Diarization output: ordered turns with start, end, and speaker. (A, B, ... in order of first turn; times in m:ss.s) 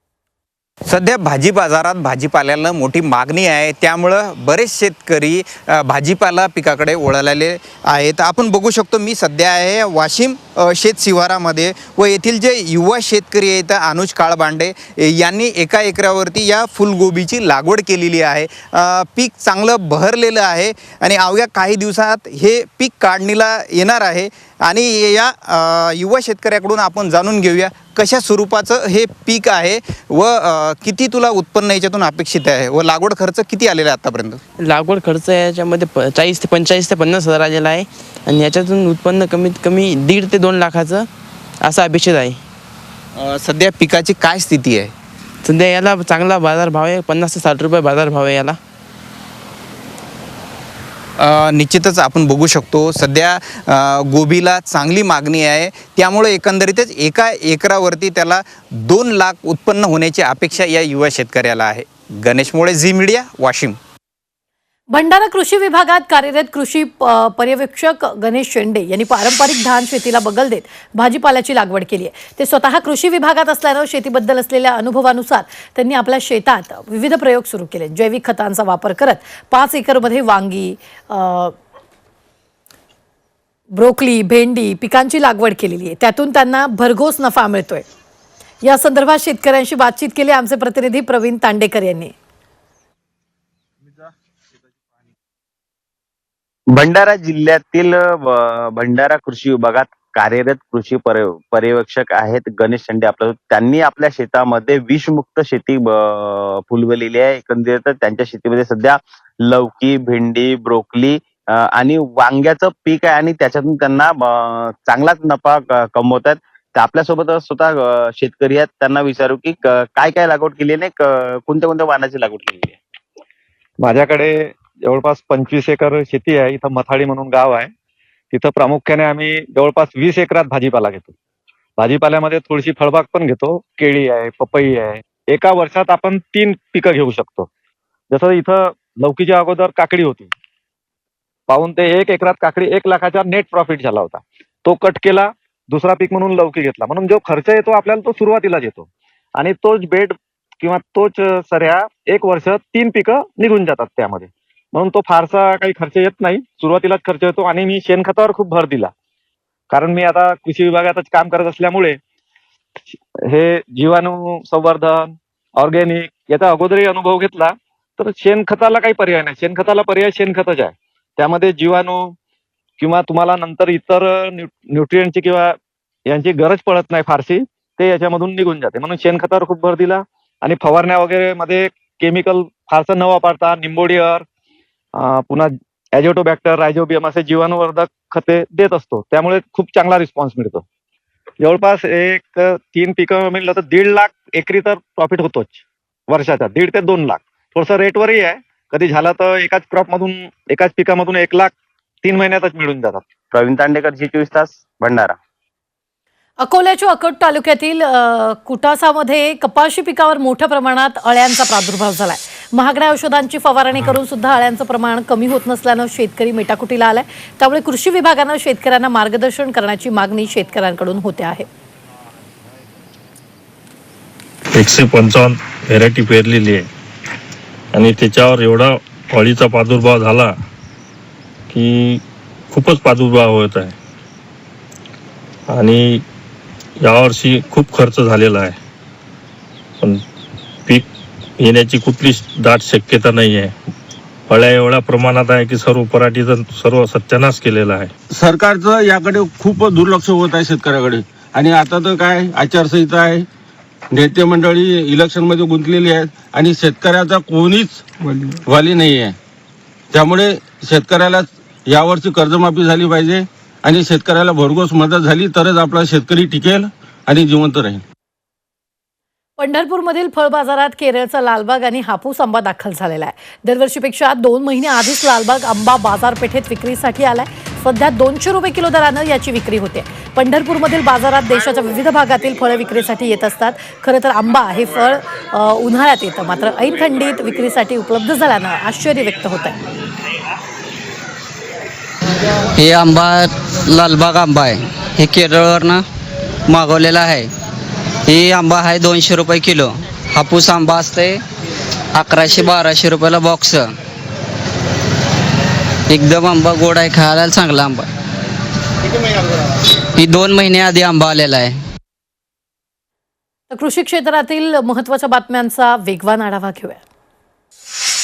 0:00.9-0:34.4 A
0:34.6-0:41.1 B
0:41.6-0:42.4 B
0:43.2-0:44.9 A
0:45.4-0:48.6 B
0:51.2-1:03.8 A
1:04.9-1:21.6 C
1:23.7-1:27.8 C
1:28.6-1:32.1 C
1:36.7-2:02.8 D
2:03.8-2:07.7 E
2:08.3-2:11.1 E
2:11.8-2:17.5 E
2:18.1-2:20.3 E
2:21.5-2:38.9 E
2:39.7-2:42.0 E
2:43.3-2:52.1 E
2:52.8-2:55.6 E
2:56.1-3:04.2 E
3:05.0-3:10.6 E
3:11.4-3:21.5 E
3:22.0-3:23.0 E
3:23.3-3:25.2 D
3:26.4-3:41.5 C
3:44.5-3:46.7 F
3:47.7-3:50.4 F
3:51.5-3:53.8 F
3:55.5-3:56.0 F
3:56.8-3:58.6 F
4:01.4-4:03.5 F
4:04.3-4:07.9 F
4:08.1-4:13.3 G
4:13.9-4:17.8 G
4:18.5-4:19.2 G
4:19.9-4:27.8 G
4:29.4-4:49.6 C
4:52.6-4:55.8 H
4:56.5-4:57.3 H
4:58.1-5:01.2 H
5:01.9-5:03.7 H
5:05.9-5:07.9 H
5:10.0-5:11.6 H
5:13.5-5:16.8 C